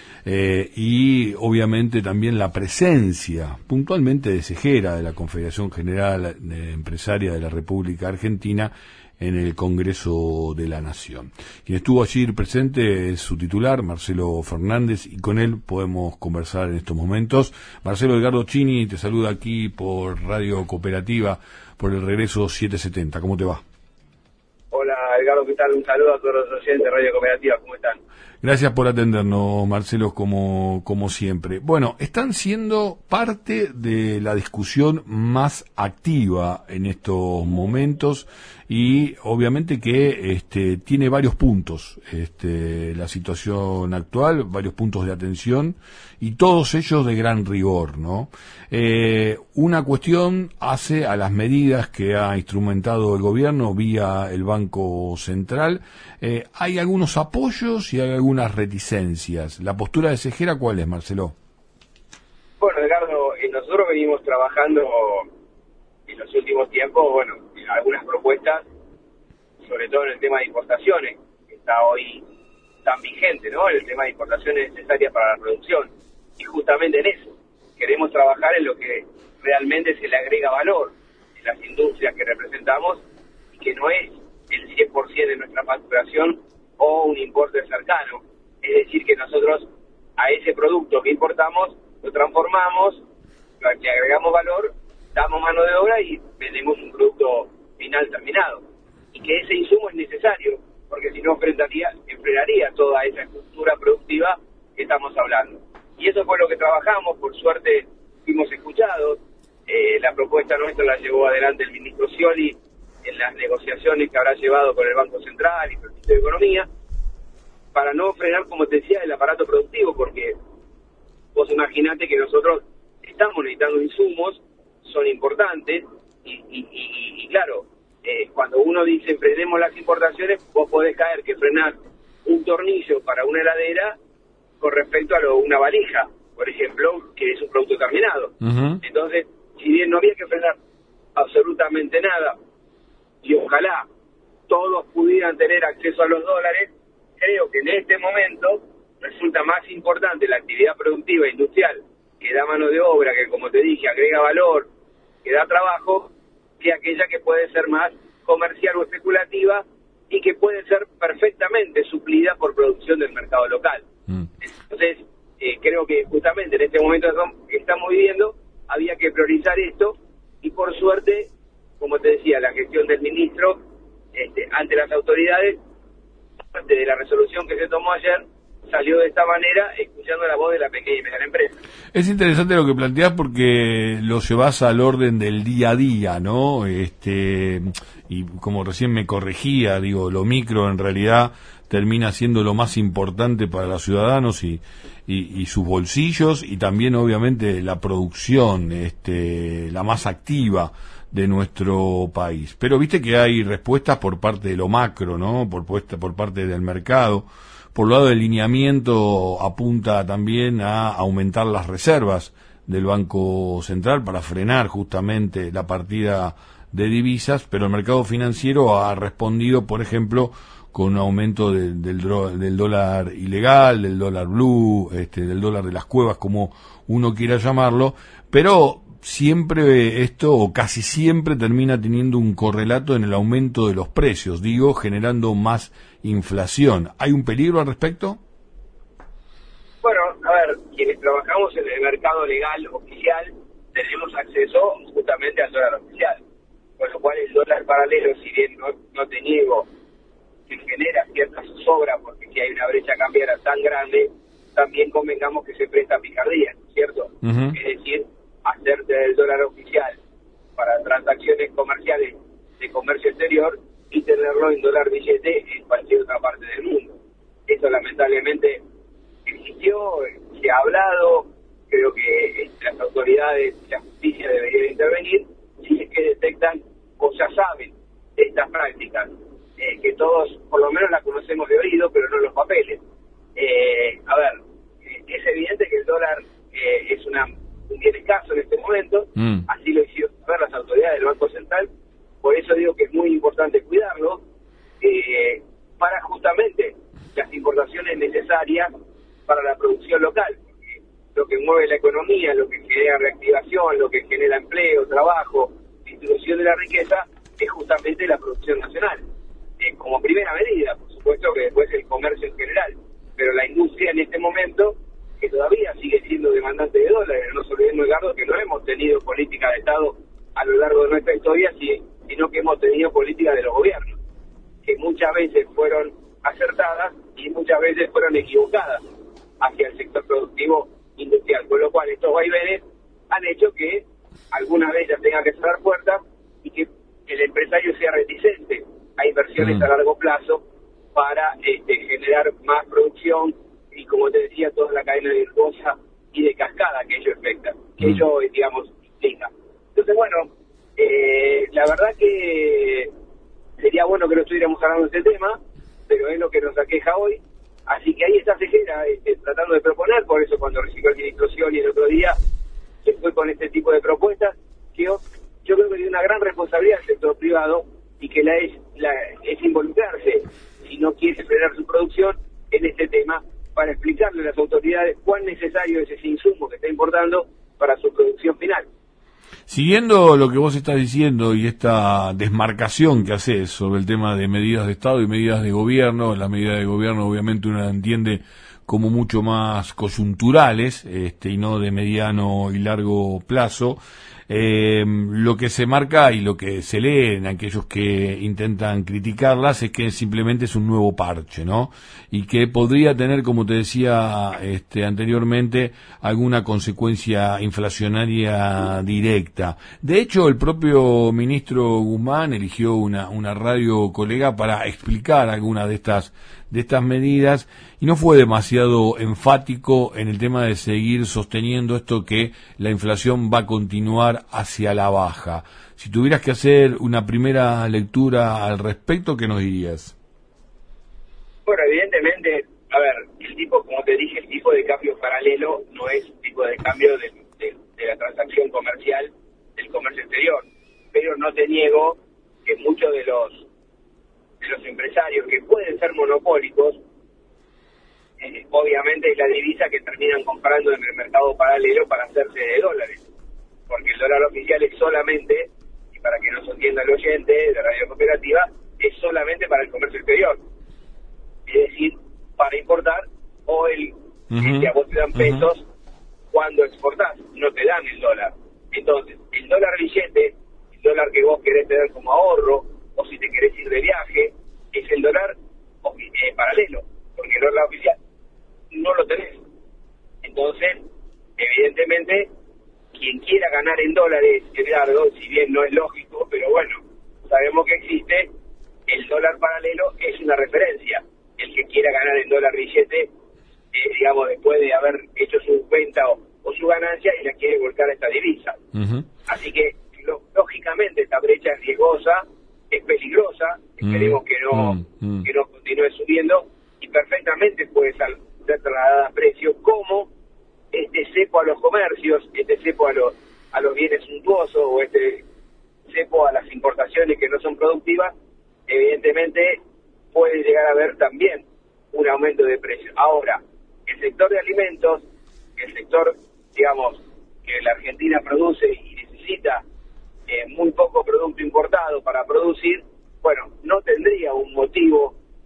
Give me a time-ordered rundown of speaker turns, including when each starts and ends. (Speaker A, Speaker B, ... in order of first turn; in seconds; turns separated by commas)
Speaker A: 0.2-23.6, Speaker B: 24.7-28.0, Speaker A: 28.4-61.3, Speaker B: 62.6-65.3, Speaker B: 66.1-68.6, Speaker B: 69.6-72.2, Speaker B: 72.8-89.7, Speaker B: 90.2-93.0, Speaker B: 93.6-116.7, Speaker B: 117.7-120.3, Speaker B: 121.3-131.7, Speaker B: 132.2-134.0, Speaker B: 134.6-140.6, Speaker A: 138.4-138.8, Speaker B: 141.2-142.3, Speaker B: 143.2-143.8, Speaker B: 144.5-154.7, Speaker B: 155.2-163.8, Speaker B: 164.4-173.6, Speaker B: 174.1-175.6, Speaker B: 176.5-181.6, Speaker A: 181.9-238.2, Speaker B: 239.8-246.2, Speaker B: 246.8-249.7, Speaker B: 250.5-260.0, Speaker A: 257.2-257.6, Speaker B: 260.6-268.6, Speaker B: 269.2-282.8, Speaker B: 283.4-291.7, Speaker A: 289.2-289.4, Speaker B: 292.2-294.2, Speaker B: 294.8-298.7, Speaker B: 299.3-309.0, Speaker B: 309.6-324.0, Speaker B: 324.6-328.8, Speaker B: 329.4-340.4, Speaker B: 340.9-352.9, Speaker B: 353.6-362.2, Speaker B: 362.8-378.7, Speaker A: 379.5-429.9, Speaker B: 431.4-443.4, Speaker B: 444.4-446.8, Speaker B: 448.2-453.0, Speaker B: 453.7-460.4, Speaker B: 461.5-465.7, Speaker A: 464.3-464.7, Speaker B: 466.3-478.0, Speaker B: 478.7-479.4, Speaker B: 480.2-480.8, Speaker B: 481.4-482.3, Speaker B: 482.9-488.3, Speaker B: 488.9-493.1, Speaker B: 493.7-498.6, Speaker A: 498.8-499.1, Speaker B: 499.3-510.1, Speaker A: 503.8-505.3, Speaker B: 510.7-515.2, Speaker B: 515.9-518.1, Speaker B: 518.7-519.6, Speaker B: 520.1-525.0, Speaker B: 525.6-529.6, Speaker B: 530.3-535.1